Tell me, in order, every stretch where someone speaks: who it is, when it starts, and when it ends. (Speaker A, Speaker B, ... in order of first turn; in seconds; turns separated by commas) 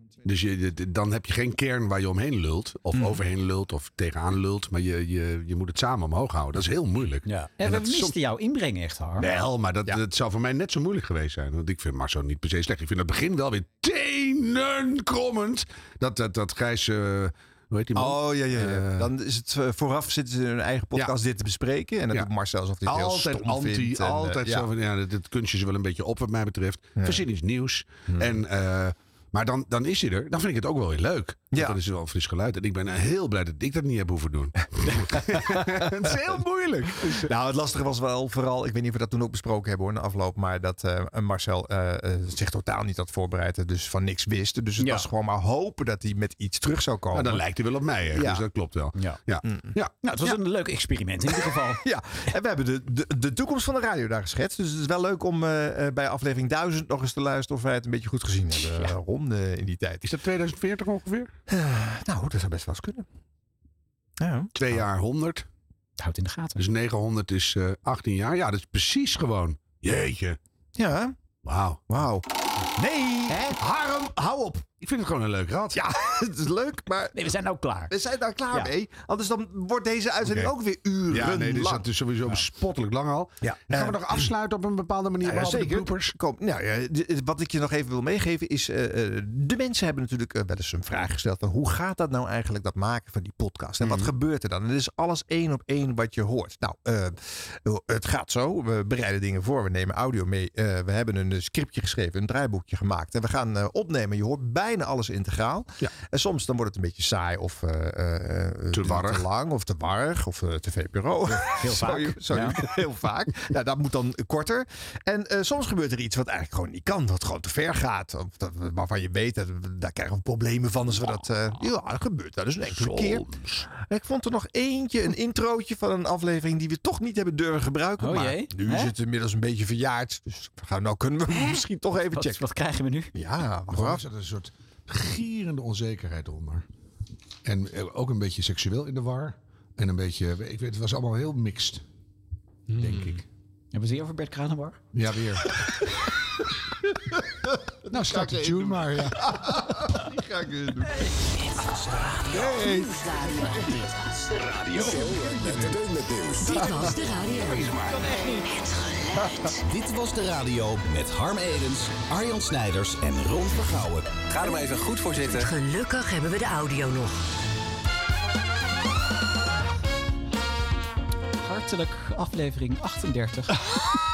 Speaker A: 0.2-8.2, Speaker B: 7.3-9.3, Speaker A: 9.2-19.1, Speaker C: 17.9-24.7, Speaker A: 22.8-37.3, Speaker C: 37.3-47.4, Speaker B: 44.8-45.1, Speaker A: 47.1-50.4, Speaker C: 48.1-48.4, Speaker B: 50.0-51.8, Speaker C: 51.8-60.1, Speaker A: 60.0-61.3, Speaker C: 61.5-63.0, Speaker C: 64.2-64.5, Speaker A: 64.6-65.5, Speaker B: 66.0-66.6, Speaker A: 66.6-70.4, Speaker C: 70.8-71.2, Speaker A: 71.4-71.8, Speaker C: 71.9-72.2, Speaker C: 72.8-73.5, Speaker B: 73.3-73.6, Speaker A: 73.6-75.8, Speaker C: 75.7-77.2, Speaker B: 77.1-77.9, Speaker C: 77.9-81.8, Speaker A: 80.2-80.5, Speaker A: 81.1-86.2, Speaker C: 83.4-84.0, Speaker C: 85.2-123.2, Speaker A: 93.8-94.1, Speaker A: 108.7-109.3, Speaker B: 111.3-112.6, Speaker A: 122.7-123.7, Speaker C: 123.9-132.4, Speaker B: 128.0-128.9, Speaker B: 131.3-133.1, Speaker C: 133.2-134.0, Speaker A: 133.7-136.7, Speaker A: 137.4-141.8, Speaker B: 142.8-143.2, Speaker B: 143.7-144.8, Speaker A: 144.9-145.5, Speaker A: 147.9-149.3, Speaker C: 148.1-148.6, Speaker C: 150.3-150.8, Speaker D: 151.4-154.5, Speaker E: 154.6-155.7, Speaker A: 155.2-155.8, Speaker D: 156.4-159.6, Speaker E: 159.7-164.5, Speaker D: 165.3-167.2, Speaker B: 171.4-173.6